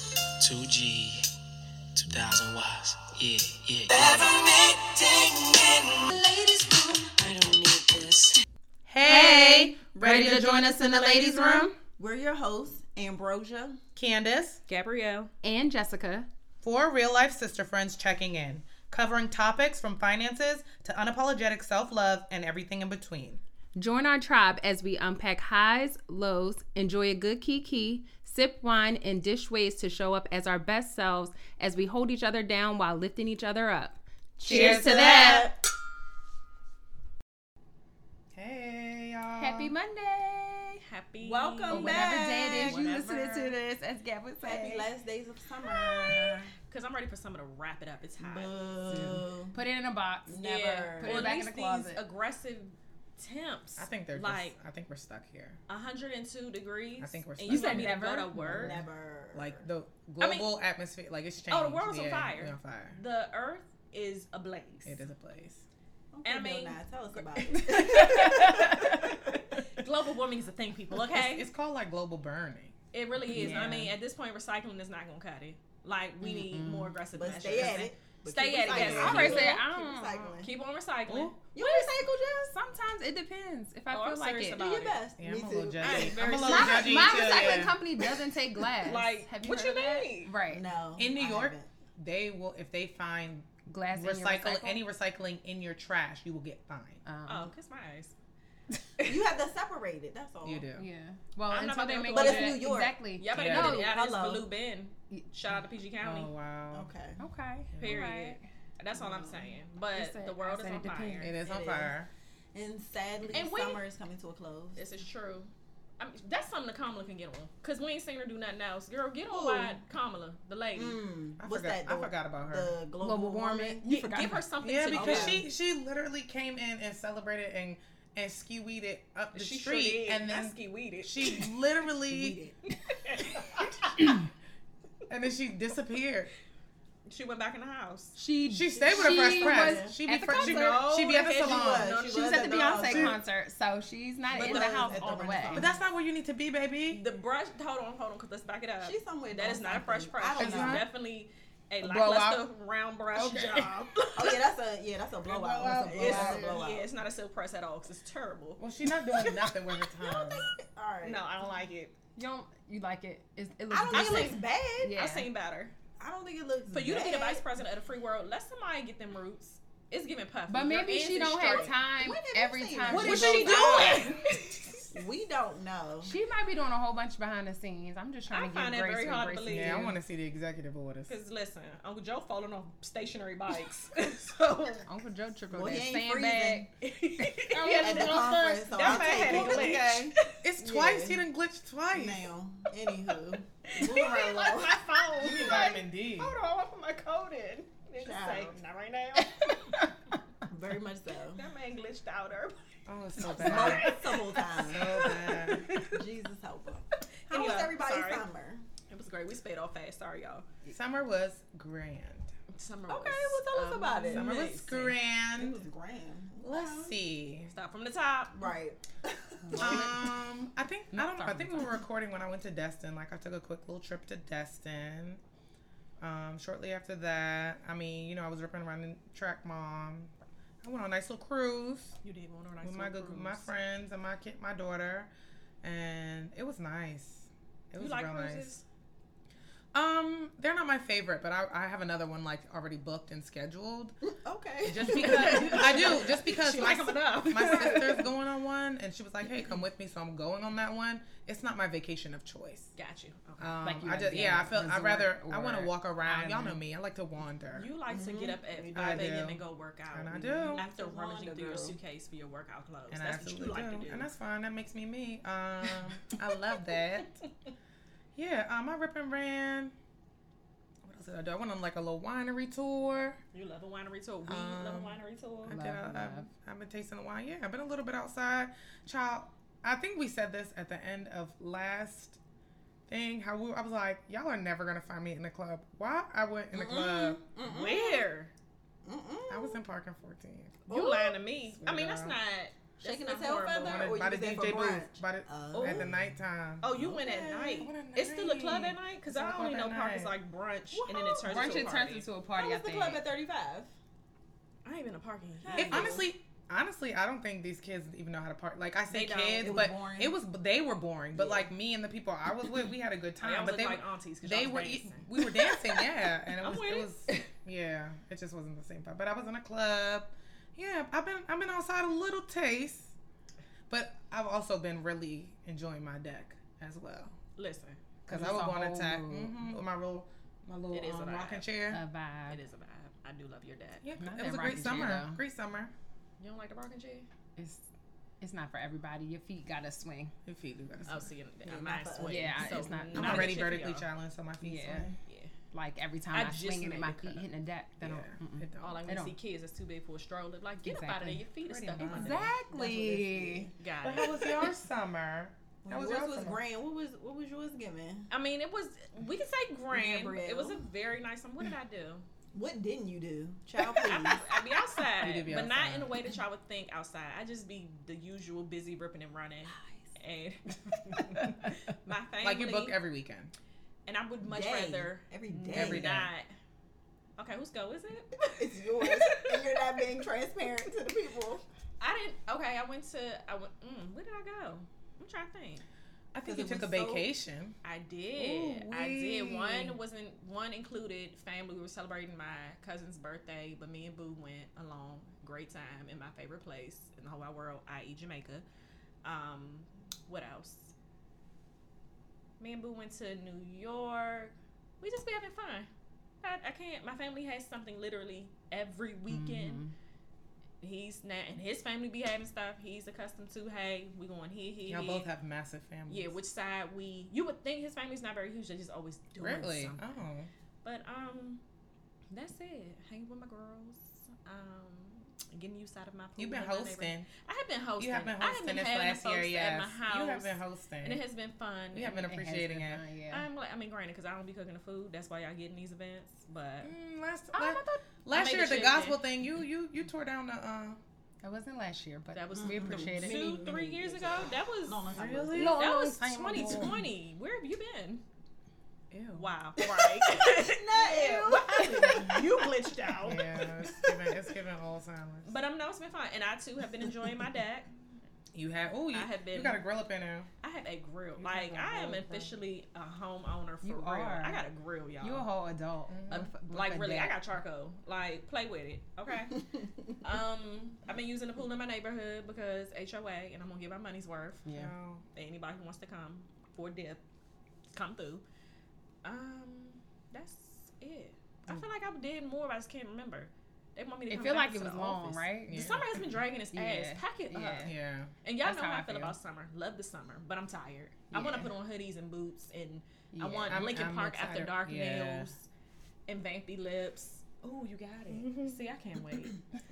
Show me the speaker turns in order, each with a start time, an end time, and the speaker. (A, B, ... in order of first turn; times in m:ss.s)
0:00.4-0:01.3 A
0:01.9-0:08.4 A
0:08.9-0:11.7 B
0:09.0-0:11.7 C
0:12.0-0:13.8 D
0:14.0-0:14.6 B
0:14.7-0:15.3 E
0:15.4-0:16.3 C
0:16.6-0:23.4 B
0:23.8-0:35.5 C
0:34.4-0:35.6 D
0:34.4-0:35.3 B
0:38.3-0:39.7 B
0:39.4-0:40.8 C
0:40.8-0:43.6 E
0:41.2-0:42.8 D
0:41.7-0:44.9 C
0:44.4-0:46.5 D
0:46.7-0:48.5 E
0:48.2-0:49.6 D
0:48.9-0:52.0 C
0:50.3-0:51.4 D
0:51.0-0:54.6 E
0:53.8-0:55.6 B
0:55.7-0:58.8 E
0:57.0-0:58.0 B
0:57.4-0:58.7 C
0:58.6-0:59.6 D
0:58.6-1:03.0 B
1:00.2-1:00.5 E
1:01.5-1:05.0 E
1:04.9-1:05.7 B
1:06.1-1:09.4 D
1:06.2-1:11.5 E
1:07.6-1:09.0 C
1:11.1-1:12.7 B
1:12.9-1:19.6 E
1:13.3-1:13.7 B
1:13.3-1:13.9 C
1:13.3-1:13.7 D
1:16.2-1:17.0 C
1:17.1-1:20.5 D
1:18.7-1:20.4 C
1:18.9-1:19.5 B
1:20.4-1:21.5 E
1:21.1-1:21.3 B
1:21.5-1:22.5 D
1:21.6-1:24.6 C
1:23.9-1:25.0 E
1:24.6-1:26.5 D
1:25.2-1:27.8 B
1:25.8-1:27.6 E
1:26.4-1:30.6 C
1:28.8-1:30.3 E
1:30.5-1:31.7 D
1:31.0-1:37.0 B
1:33.7-1:34.8 C
1:37.0-1:37.5 C
1:37.3-1:38.1 E
1:39.0-1:40.7 D
1:40.4-1:40.8 B
1:40.8-1:43.9 C
1:41.5-1:46.3 E
1:42.1-1:43.0 D
1:43.3-1:43.8 B
1:43.7-1:44.4 D
1:46.0-1:46.9 B
1:46.7-1:47.2 D
1:47.2-1:48.4 C
1:47.7-1:48.0 B
1:47.8-1:51.3 E
1:49.0-1:49.6 D
1:49.9-1:51.3 C
1:51.2-1:52.1 B
1:51.4-1:52.0 D
1:52.5-1:54.8 D
1:53.3-1:53.8 E
1:54.8-2:01.0 E
1:59.3-1:59.8 D
2:00.8-2:05.4 D
2:01.4-2:02.8 B
2:03.0-2:04.4 C
2:03.8-2:05.4 E
2:04.6-2:12.4 B
2:09.3-2:11.6 E
2:12.1-2:12.5 D
2:12.9-2:13.9 E
2:15.1-2:16.3 B
2:17.1-2:18.2 E
2:18.1-2:20.8 C
2:18.5-2:22.0 B
2:18.7-2:20.0 D
2:20.3-2:23.0 E
2:20.6-2:23.2 D
2:22.0-2:25.7 C
2:22.8-2:23.2 B
2:24.3-2:25.2 E
2:24.3-2:25.8 D
2:25.5-2:27.0 B
2:26.9-2:34.4 E
2:28.8-2:30.9 D
2:30.4-2:30.9 B
2:31.8-2:32.4 B
2:33.2-2:33.6 C
2:33.3-2:33.6 B
2:34.1-2:36.9 D
2:35.3-2:36.4 B
2:35.6-2:36.6 C
2:35.9-2:38.6 E
2:38.6-2:40.5 B
2:39.9-2:41.2 D
2:41.0-2:41.9 E
2:42.2-2:45.3 C
2:43.7-2:44.9 D
2:43.9-2:45.7 E
2:46.0-2:47.4 D
2:46.7-2:51.7 E
2:50.5-2:54.2 C
2:51.4-2:54.2 D
2:52.9-2:54.9 E
2:54.9-2:56.1 D
2:56.0-3:00.0 C
2:58.3-2:59.9 E
2:59.5-3:01.1 B
3:01.1-3:04.9 E
3:04.8-3:06.7 C
3:05.5-3:06.7 D
3:06.8-3:10.4 E
3:07.5-3:09.4 C
3:07.5-3:11.2 D
3:10.4-3:12.3 B
3:11.9-3:15.7 D
3:13.7-3:19.8 E
3:15.2-3:16.3 B
3:18.0-3:18.6 D
3:20.5-3:21.4 D
3:21.3-3:22.6 E
3:22.9-3:25.7 B
3:23.2-3:26.0 E
3:23.4-3:25.1 D
3:25.8-3:28.6 D
3:27.3-3:28.3 E
3:28.9-3:30.4 E
3:30.7-3:32.3 B
3:32.5-3:35.0 E
3:32.9-3:34.6 D
3:34.1-3:35.6 B
3:35.3-3:37.0 D
3:36.4-3:37.5 B
3:37.5-3:38.5 E
3:38.3-3:39.9 D
3:39.5-3:39.9 C
3:39.6-3:45.2 B
3:40.9-3:41.8 C
3:41.3-3:41.6 E
3:46.0-3:52.0 B
3:52.0-3:53.5 E
3:52.6-3:55.1 B
3:55.6-3:58.5 B
3:57.8-3:58.6 E
3:59.7-4:03.9 B
4:04.1-4:06.3 D
4:04.6-4:12.7 B
4:04.7-4:08.1 E
4:12.8-4:13.6 E
4:13.4-4:17.7 B
4:13.6-4:16.6 C
4:17.5-4:24.1 E
4:17.9-4:19.2 D
4:18.7-4:19.4 B
4:19.9-4:20.6 B
4:20.1-4:21.8 D
4:22.9-4:27.2 B
4:28.2-4:29.8 B
4:30.8-4:33.2 B
4:33.3-4:35.6 E
4:34.2-4:42.2 B
4:35.5-4:36.3 C
4:42.9-4:47.2 B
4:46.5-4:48.1 D
4:47.4-4:48.3 E
4:48.8-4:49.6 D
4:49.3-4:50.6 B
4:50.7-4:54.0 E
4:50.7-4:51.2 D
4:51.6-4:52.2 B
4:52.8-4:56.0 D
4:53.6-4:57.0 B
4:55.5-4:55.9 E
4:56.6-5:02.1 E
4:56.8-4:57.7 D
4:57.6-5:00.2 B
5:00.7-5:01.7 D
5:01.2-5:03.0 C
5:02.4-5:03.7 D
5:04.6-5:06.1 E
5:05.4-5:06.1 D
5:05.6-5:22.9 B
5:08.9-5:09.7 E
5:09.4-5:10.2 D
5:11.1-5:11.5 D
5:13.2-5:15.9 E
5:16.4-5:17.3 E
5:23.7-5:27.2 B
5:27.4-5:27.8 E
5:28.1-5:29.5 C
5:28.1-5:31.8 B
5:30.7-5:31.5 E
5:31.7-5:32.4 C
5:32.3-5:33.9 E
5:33.8-5:35.7 B
5:34.0-5:35.2 C
5:36.2-5:37.1 E
5:37.4-5:37.7 C
5:38.2-5:40.1 C
5:40.2-5:41.1 B
5:40.8-5:43.9 E
5:41.4-5:43.3 D
5:42.0-5:43.3 C
5:42.9-5:45.0 B
5:44.4-5:44.9 C
5:45.0-5:45.3 E
5:45.5-5:49.2 C
5:46.1-5:47.2 E
5:47.8-5:48.8 B
5:48.6-5:52.3 E
5:50.6-5:53.5 C
5:51.5-5:52.3 B
5:52.5-5:53.5 D
5:53.6-5:54.5 E
5:53.8-5:56.4 B
5:55.6-5:58.1 D
5:58.1-6:02.0 E
5:59.7-6:00.6 D
6:02.3-6:04.4 D
6:03.8-6:12.8 E
6:05.0-6:05.9 B
6:12.2-6:13.3 B
6:13.9-6:16.3 E
6:14.2-6:16.0 D
6:15.5-6:16.1 B
6:17.2-6:19.8 E
6:18.3-6:21.4 D
6:21.8-6:25.6 E
6:26.1-6:27.6 B
6:26.2-6:27.1 D
6:27.6-6:38.4 E
6:28.2-6:29.8 B
6:39.0-6:40.7 E
6:42.4-6:45.7 E
6:46.2-6:49.6 E
6:49.1-6:49.7 C
6:50.6-6:55.1 E
6:54.7-6:56.1 B
6:55.9-7:00.0 E
6:59.2-7:00.3 B
7:00.6-7:01.4 E
7:02.1-7:12.0 E
7:06.2-7:07.1 B
7:07.8-7:11.0 B
7:11.7-7:12.8 B
7:12.0-7:13.3 C
7:13.1-7:16.7 E
7:16.6-7:20.8 B
7:17.3-7:17.8 C
7:18.1-7:19.0 E
7:21.2-7:23.4 C
7:22.1-7:28.0 E
7:22.3-7:25.5 D
7:23.0-7:23.5 B
7:24.9-7:25.7 B
7:25.4-7:26.8 C
7:26.4-7:26.7 B
7:28.9-7:29.3 B
7:29.2-7:33.8 E
7:29.6-7:33.0 D
7:33.0-7:35.3 B
7:35.2-7:37.7 E
7:38.3-7:40.3 B
7:38.9-7:39.6 E
7:40.4-7:45.3 E
7:41.2-7:42.3 B
7:43.6-7:44.4 C
7:45.0-7:47.2 C
7:45.9-7:46.3 B
7:46.1-7:54.5 E
7:54.5-7:54.7 C
7:54.5-7:55.0 B
7:55.2-7:57.0 E
7:57.7-7:58.2 E
7:59.0-8:15.5 E
8:04.1-8:05.7 C
8:05.5-8:06.0 B
8:06.5-8:07.7 C
8:07.6-8:08.1 B
8:08.4-8:09.2 C
8:11.2-8:11.5 C
8:13.1-8:13.8 C
8:13.5-8:15.3 B
8:16.1-8:19.4 E
8:18.1-8:18.6 B